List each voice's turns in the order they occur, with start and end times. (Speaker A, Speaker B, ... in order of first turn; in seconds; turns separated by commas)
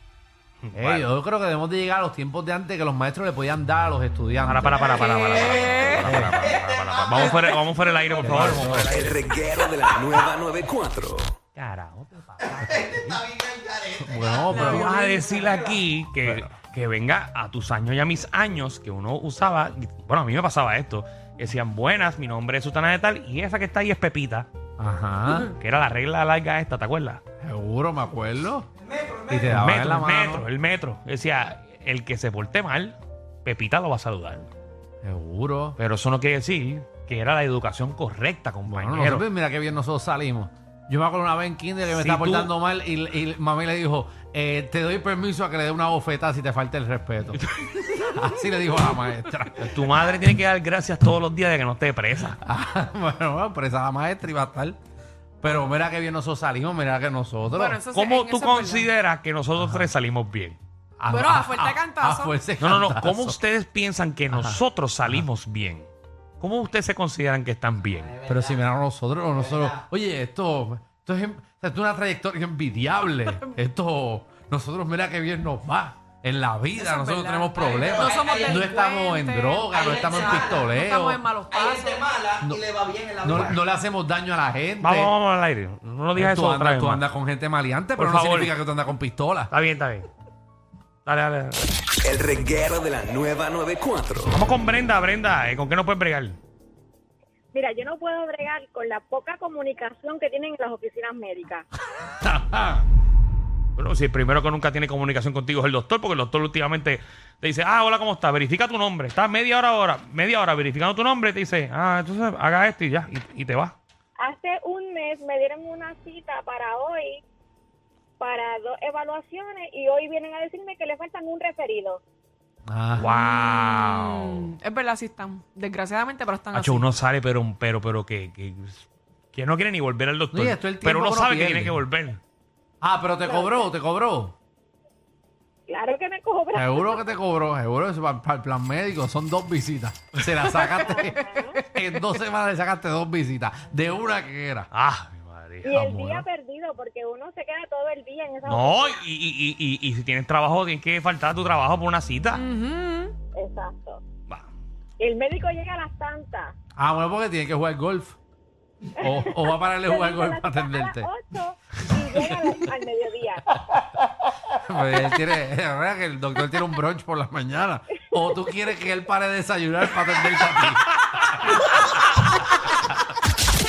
Speaker A: 0.6-1.1, Speaker B: 0.7-4.8, Speaker A: 4.4-9.4, Speaker C: 4.9-6.1, Speaker B: 5.7-6.5, Speaker B: 8.2-8.9, Speaker D: 8.9-11.3, Speaker A: 11.6-13.1, Speaker B: 12.6-13.3, Speaker E: 13.4-13.8, Speaker B: 13.9-15.0, Speaker C: 14.5-15.5, Speaker A: 14.5-24.5, Speaker B: 16.2-16.5, Speaker B: 24.8-25.5, Speaker A: 25.5-27.2, Speaker B: 27.4-28.7, Speaker B: 29.2-30.4, Speaker A: 29.5-34.5, Speaker B: 35.0-35.8, Speaker A: 35.8-39.2, Speaker B: 38.7-47.4, Speaker A: 41.9-42.5, Speaker A: 47.3-47.8, Speaker B: 48.0-49.7, Speaker A: 49.6-52.4, Speaker B: 52.4-54.8, Speaker B: 55.4-57.8, Speaker C: 57.5-58.9, Speaker A: 57.9-60.6, Speaker B: 59.6-59.9, Speaker B: 61.0-63.4, Speaker C: 61.1-62.3, Speaker A: 62.6-65.9, Speaker B: 64.3-65.2, Speaker A: 66.4-68.2, Speaker B: 68.2-81.2, Speaker C: 76.8-82.1, Speaker E: 77.7-78.6, Speaker E: 79.8-80.5, Speaker E: 81.5-83.4, Speaker B: 82.3-85.1, Speaker A: 84.8-87.0, Speaker B: 86.1-89.5, Speaker A: 88.0-88.5, Speaker A: 89.5-90.1, Speaker A: 91.0-91.6, Speaker D: 92.0-94.3, Speaker A: 94.3-96.4, Speaker F: 97.5-101.6, Speaker B: 102.2-102.8, Speaker A: 103.8-113.7, Speaker F: 114.2-117.2, Speaker F: 118.2-122.0, Speaker B: 122.7-123.1, Speaker A: 123.0-124.5, Speaker C: 123.2-126.9, Speaker A: 126.5-132.2, Speaker B: 130.3-131.8, Speaker B: 132.8-134.3, Speaker F: 133.2-133.6, Speaker F: 135.7-137.0, Speaker B: 136.5-144.7, Speaker F: 140.8-141.6, Speaker A: 144.7-145.8, Speaker F: 145.6-149.0, Speaker B: 145.7-146.2, Speaker A: 148.4-152.4, Speaker C: 152.3-153.2, Speaker F: 153.3-154.0, Speaker F: 155.0-156.5, Speaker B: 156.8-158.2, Speaker B: 159.0-161.1, Speaker F: 159.2-163.4, Speaker B: 164.5-171.6